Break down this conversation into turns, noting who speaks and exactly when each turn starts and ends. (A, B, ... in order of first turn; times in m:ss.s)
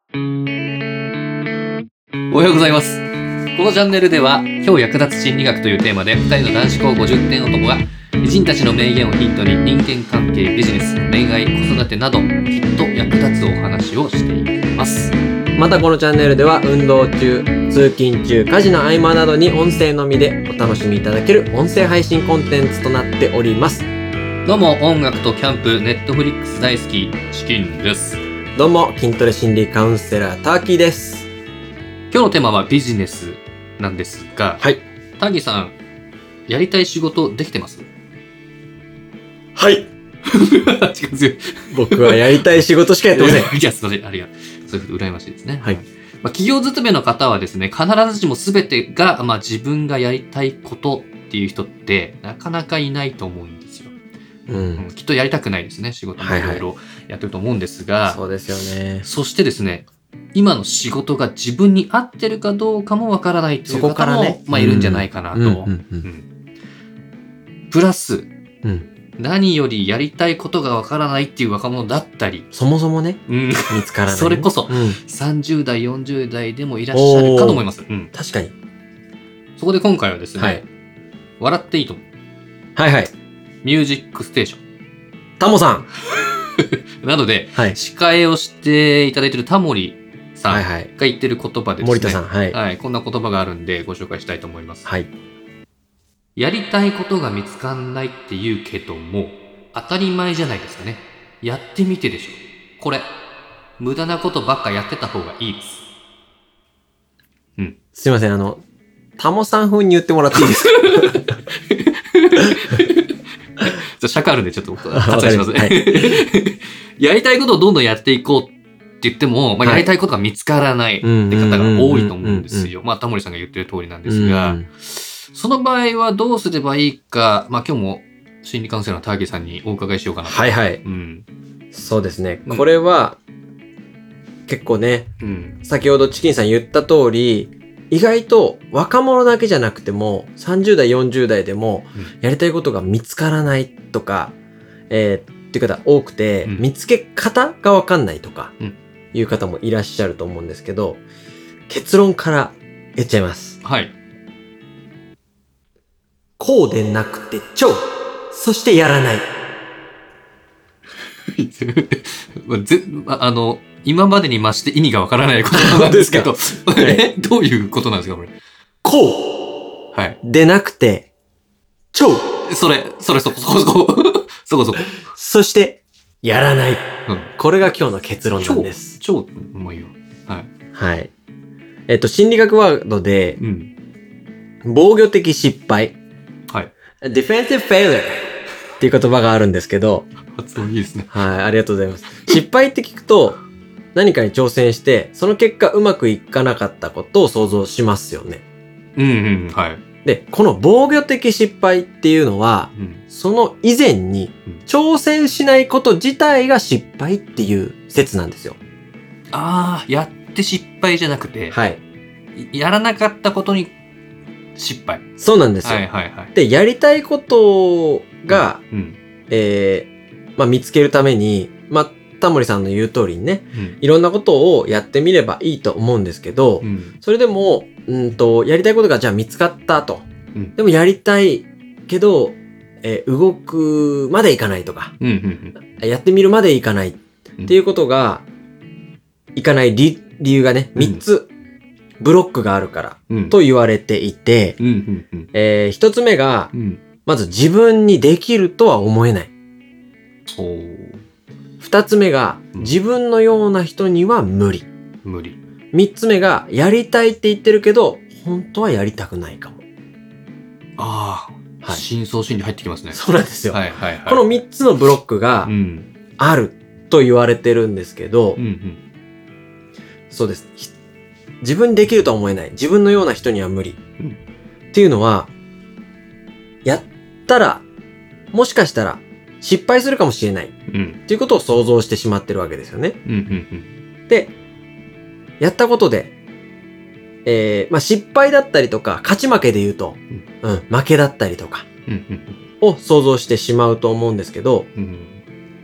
0:02.3-0:14.6 A
0:14.8-0:23.9 B
0:24.4-0:28.2 A
0:28.6-0:31.3 B
0:32.1-0:34.6 A
0:35.2-0:35.8 A
0:36.5-0:37.9 A
0:39.6-0:39.9 B
0:40.2-0:42.6 A
0:41.7-0:43.5 B
0:43.1-0:53.9 A
0:54.5-0:54.8 B
0:54.8-0:58.2 A
0:56.2-0:56.6 B
0:58.1-0:59.0 B
0:59.0-1:06.3 A
1:03.7-1:06.1 B
1:07.7-1:08.3 A
1:09.2-1:12.5 A
1:12.5-1:15.0 B
1:13.3-1:18.1 A
1:16.9-1:17.6 B
1:18.1-1:18.5 B
1:19.6-1:20.7 A
1:21.4-1:22.0 A
1:22.8-1:23.1 B
1:23.6-1:24.6 A
1:25.4-1:25.9 B
1:26.1-1:34.9 A
1:30.5-1:30.9 B
1:31.8-1:32.6 B
1:36.4-1:43.1 A
1:43.8-1:45.8 A
1:48.0-1:48.6 B
1:49.2-1:51.3 B
1:50.4-2:11.3 A
1:55.0-1:55.8 B
1:59.6-1:59.9 B
2:01.0-2:02.7 B
2:04.1-2:04.7 B
2:10.2-2:10.8 B
2:11.7-2:13.2 B
2:14.5-2:15.1 B
2:15.2-2:15.6 A
2:15.6-2:24.3 B
2:24.9-2:28.5 B
2:29.1-2:31.0 B
2:31.7-2:33.6 B
2:33.6-2:34.0 A
2:36.4-2:39.3 B
2:41.3-2:48.3 A
2:45.5-2:47.0 B
2:48.8-2:49.4 B
2:50.2-2:51.1 B
2:51.9-2:52.3 B
2:52.4-2:55.0 A
2:54.9-2:59.0 B
2:58.4-3:00.5 A
3:00.8-3:01.1 B
3:01.9-3:03.4 B
3:03.4-3:03.7 A
3:04.6-3:06.0 B
3:07.0-3:10.1 B
3:10.3-3:11.1 A
3:11.1-3:13.4 B
3:14.0-3:18.4 B
3:19.0-3:19.8 A
3:20.0-3:28.6 B
3:22.8-3:23.0 A
3:29.3-3:31.6 A
3:31.5-3:31.8 B
3:32.4-3:33.8 A
3:34.6-3:35.0 A
3:35.2-3:38.6 B
3:35.6-3:36.3 A
3:38.3-3:39.0 A
3:39.3-3:50.0 B
3:46.6-3:47.0 A
3:50.6-3:55.0 B
3:55.0-3:55.6 A
3:55.7-3:58.2 B
3:59.4-4:01.3 B
4:00.8-4:01.0 A
4:02.0-4:04.6 B
4:03.1-4:03.4 A
4:04.6-4:05.3 A
4:05.3-4:06.5 B
4:06.5-4:06.8 A
4:07.0-4:09.3 B
4:10.3-4:11.0 A
4:11.6-4:14.7 B
4:15.0-4:15.4 A
4:15.7-4:19.6 B
4:20.8-4:24.3 A
4:22.9-4:25.5 B
4:25.4-4:25.9 A
4:26.2-4:28.4 B
4:28.4-4:28.8 A
4:30.1-4:30.7 B
4:31.4-4:33.8 B
4:34.7-4:35.3 B
4:36.6-4:37.6 B
4:38.3-4:40.5 B
4:40.7-4:41.0 A
4:41.1-4:43.0 B
4:43.1-4:43.7 A
4:44.1-4:44.3 B
4:45.4-4:46.1 B
4:47.2-4:51.7 B
4:51.9-4:52.4 A
4:52.6-4:54.7 B
4:54.8-4:55.2 A